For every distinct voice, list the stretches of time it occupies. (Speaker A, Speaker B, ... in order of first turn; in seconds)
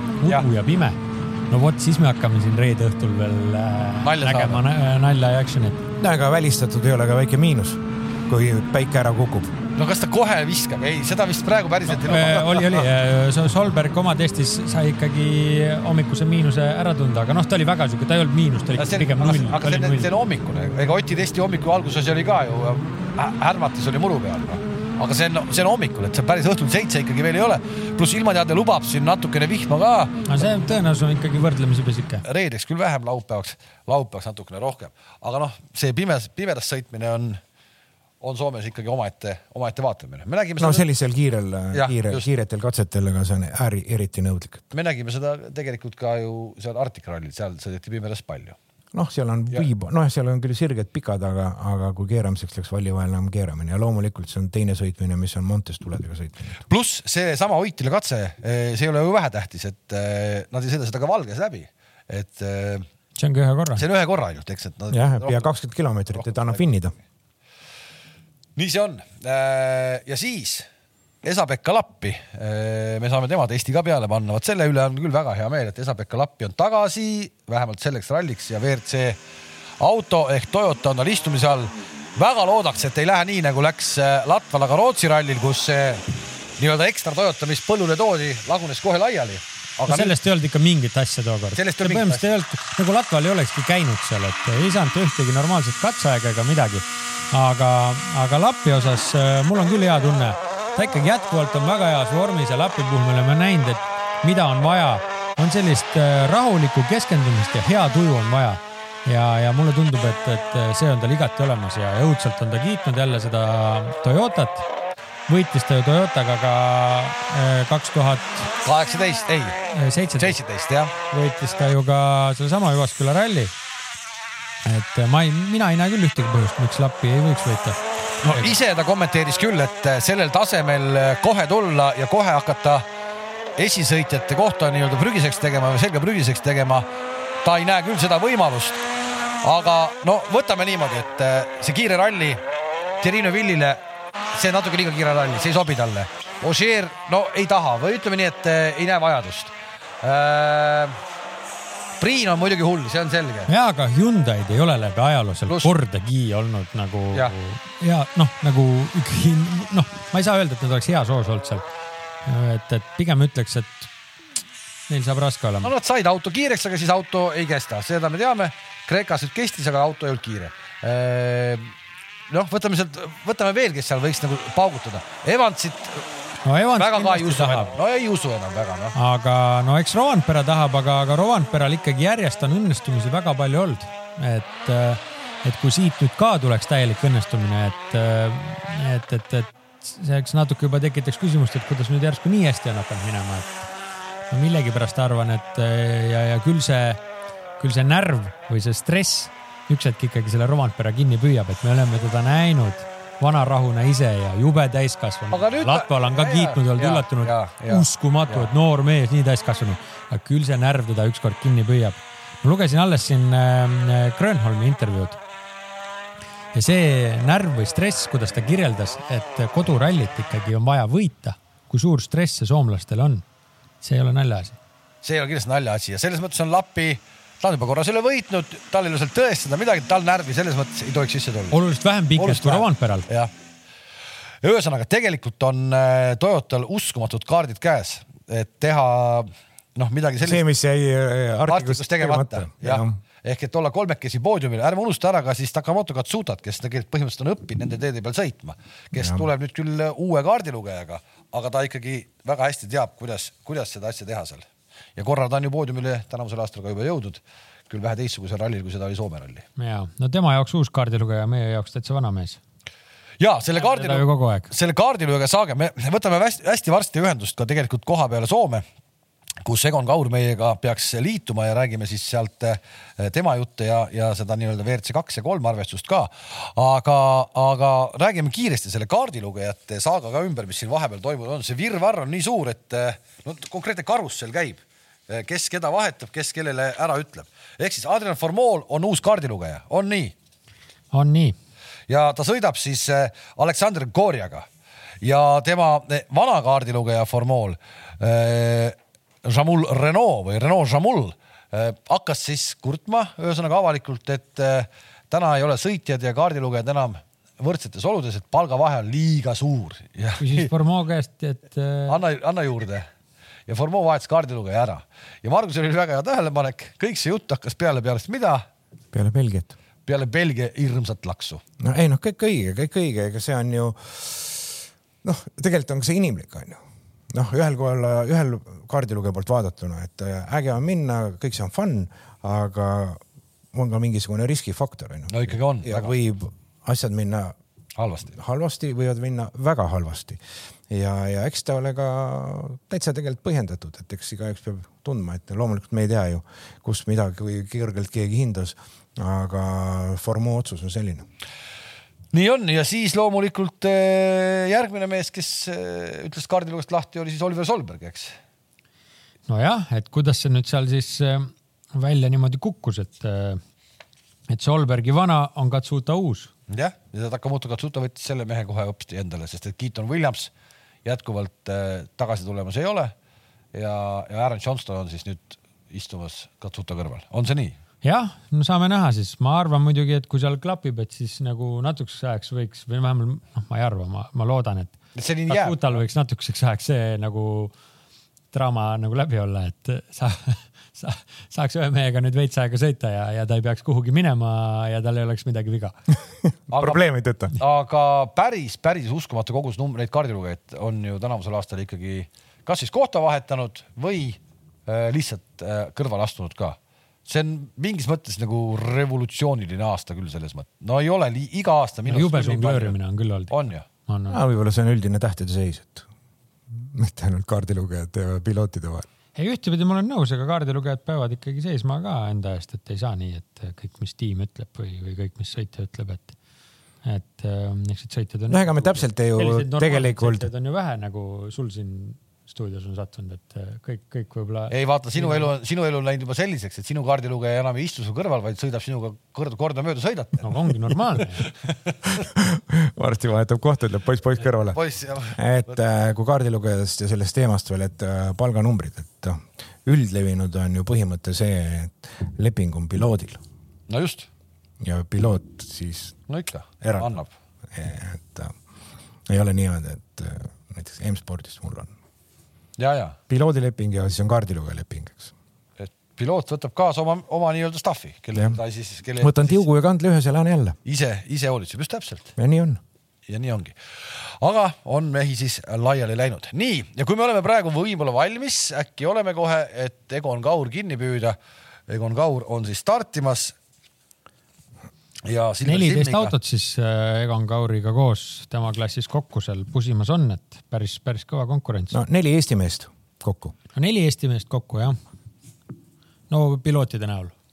Speaker A: 0.2-5.8, 12.0-20.1, 30.2-32.2, 63.2-63.8, 89.9-114.7, 115.3-118.5, 119.7-120.4, 121.1-123.5, 124.6-128.5, 153.5-161.6, 162.2-163.9, 164.9-165.7, 176.4-177.7, 178.9-193.6, 194.3-197.0, 197.6-215.2, 216.5-223.2, 223.8-224.6, 231.5-233.1, 259.6-262.4, 263.6-264.5, 290.9-291.4, 310.2-312.0, 359.3-363.4, 364.3-366.3, 377.8-387.5, 388.3-395.7, 411.9-414.2, 419.1-426.1, 426.8-435.3, 440.2-441.3, 485.4-491.8, 493.5-494.8, 496.1-497.1
Speaker B: 4.0-4.6, 9.7-12.9, 18.8-30.2, 32.2-37.4, 38.2-40.9, 41.7-42.3, 44.7-48.6, 56.7-62.9, 63.8-65.5, 66.1-66.6, 68.5-70.7, 71.2-79.2, 79.8-86.1, 86.6-90.1, 91.5-92.2, 118.6-119.6, 120.2-120.9, 128.2-132.8, 133.6-136.9, 137.4-138.8, 139.4-142.4, 143.0-143.8, 144.3-151.0, 152.0-153.5, 155.5-155.7, 165.6-171.7, 172.3-176.1, 176.8-178.9, 205.3-208.5, 225.0-231.6, 232.2-233.3, 234.4-240.4, 241.5-259.4, 263.2-268.6, 269.4-290.1, 291.9-294.5, 295.0-310.5, 311.9-312.9, 313.5-318.4, 319.9-321.4, 335.1-335.9, 337.8-338.2, 352.1-358.1, 366.5-370.3, 370.8-372.9, 373.5-377.6, 384.9-385.8, 396.5-396.8, 397.4-412.7, 413.3-413.6, 434.5-440.3, 444.5-445.6, 453.7-454.1, 456.1-457.1, 462.6-463.0, 465.6-469.4, 470.6-472.1, 473.1-473.6, 474.2-481.2, 481.7-483.3, 485.0-486.1
Speaker C: 6.0-9.5, 40.6-44.6, 48.9-56.6, 64.9-66.9, 240.2-243.0, 248.9-249.2, 318.9-319.5, 321.6-326.6, 327.1-333.0, 333.5-337.4, 338.1-351.0, 396.5-397.3, 414.1-415.9, 416.6-418.9, 428.3-430.3, 442.0-444.6, 445.1-453.2, 454.6-456.0, 456.6-456.9, 457.5-458.3, 459.1-461.7, 463.1-465.1, 469.0-470.6, 472.2-472.6, 491.7-493.3